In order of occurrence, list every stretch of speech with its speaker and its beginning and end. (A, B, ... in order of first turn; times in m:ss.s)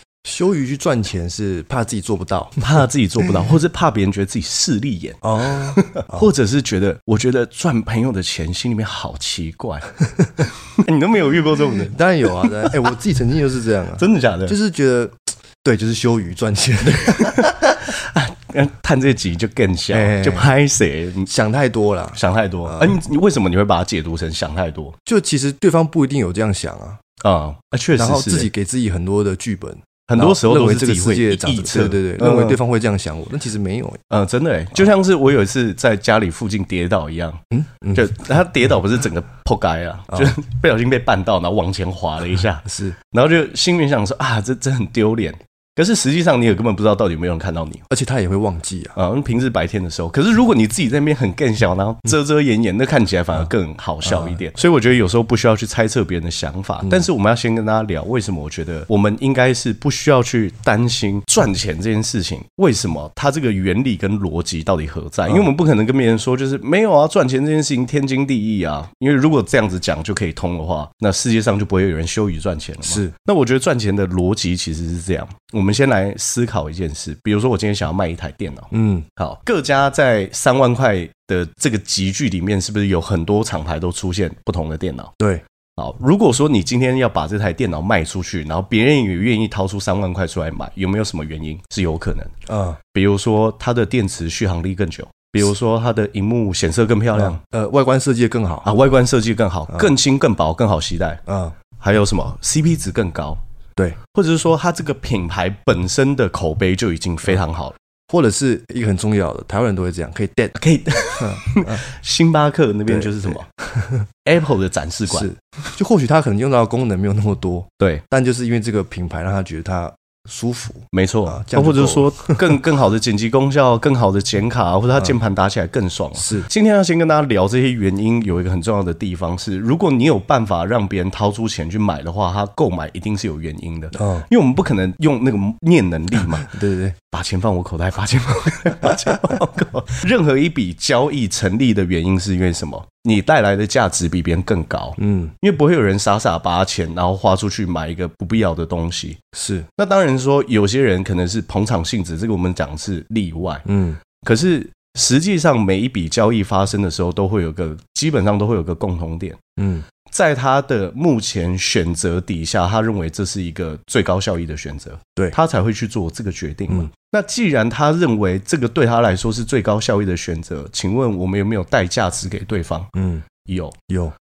0:00.2-0:02.6 A
0:02.6-0:09.9 B
0:05.2-0:06.2 A
0:10.7-0:12.9 B
0:11.8-0:17.6 A
0:14.0-0:14.6 B
0:17.1-0:21.3 B
0:19.9-0:20.5 A
0:21.3-0:23.0 A
0:22.1-0:25.0 B
0:25.1-0:27.0 A
0:27.2-0:28.5 B
0:28.0-0:34.0 A
0:30.1-0:32.6 B
0:34.1-0:47.8 B
0:37.5-0:38.0 A
0:42.7-0:43.0 A
0:47.9-0:49.0 A
0:49.0-1:25.1 B
0:54.0-0:54.4 A
1:12.8-1:13.1 A
1:18.7-1:19.1 A
1:25.2-1:25.4 A
1:25.8-1:32.3 B
1:32.5-1:32.8 A
1:32.9-1:37.4 B
1:37.2-1:38.7 A
1:38.6-1:41.2 B
1:41.3-1:41.5 A
1:41.8-1:43.4 B
1:44.1-1:47.8 B
1:48.1-1:50.6 A
1:50.6-1:53.5 B
1:51.2-1:51.8 A
1:52.9-1:54.1 A
1:54.2-1:55.7 B
1:55.1-2:02.6 A
2:00.9-2:16.5 B
2:06.2-2:06.5 A
2:13.9-2:14.3 A
2:16.4-2:17.0 A
2:17.1-2:29.2 B
2:25.0-2:25.3 A
2:29.3-2:29.7 A
2:29.8-2:33.7 B
2:33.7-2:34.0 A
2:34.2-2:39.4 B
2:39.6-2:39.8 A
2:40.1-2:52.9 B
2:53.0-2:53.3 A
2:53.4-2:53.8 B
2:53.9-2:54.1 A